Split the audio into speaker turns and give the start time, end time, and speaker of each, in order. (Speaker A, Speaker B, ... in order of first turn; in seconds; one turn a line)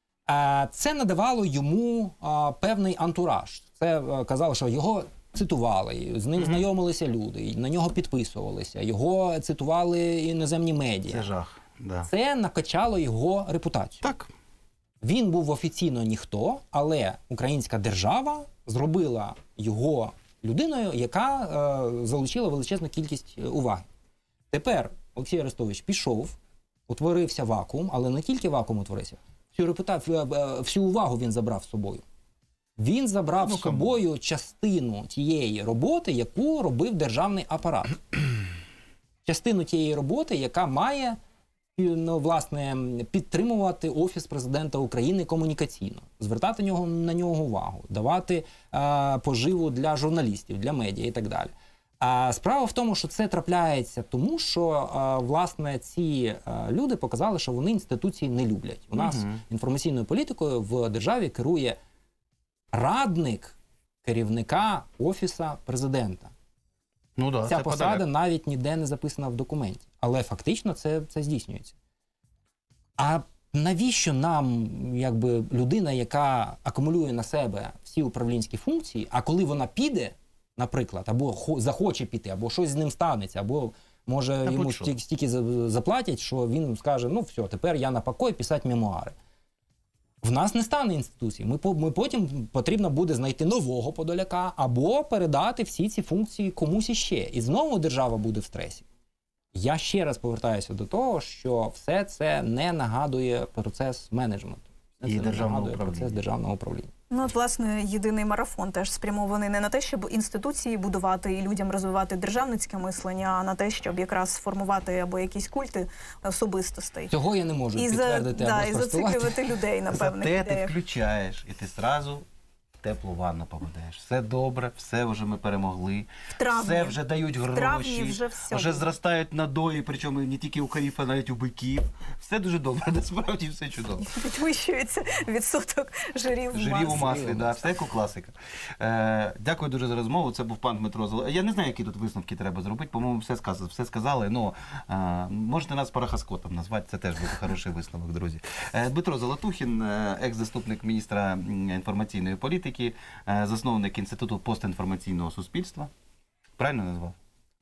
Speaker A: 0.3-11.3
Speaker B: 11.1-12.1
Speaker A: 12.0-14.1
Speaker B: 14.0-14.3
Speaker A: 15.0-23.9
Speaker A: 24.5-26.4
Speaker A: 26.9-32.0
Speaker A: 32.8-38.2
Speaker B: 33.4-34.0
Speaker A: 39.2-41.2
Speaker A: 41.8-61.8
Speaker B: 59.0-59.4
Speaker A: 62.7-66.3
Speaker B: 67.2-68.0
Speaker A: 67.5-71.7
Speaker A: 73.0-89.1
Speaker B: 84.4-84.9
Speaker A: 90.2-98.8
Speaker A: 99.5-106.9
Speaker B: 105.0-106.2
Speaker C: 107.1-117.1
Speaker A: 117.1-119.4
Speaker C: 117.8-120.7
Speaker B: 119.9-122.2
Speaker B: 122.8-134.1
Speaker C: 126.4-128.9
Speaker C: 134.1-137.2
Speaker B: 136.5-155.9
Speaker A: 137.1-137.5
Speaker B: 156.6-157.2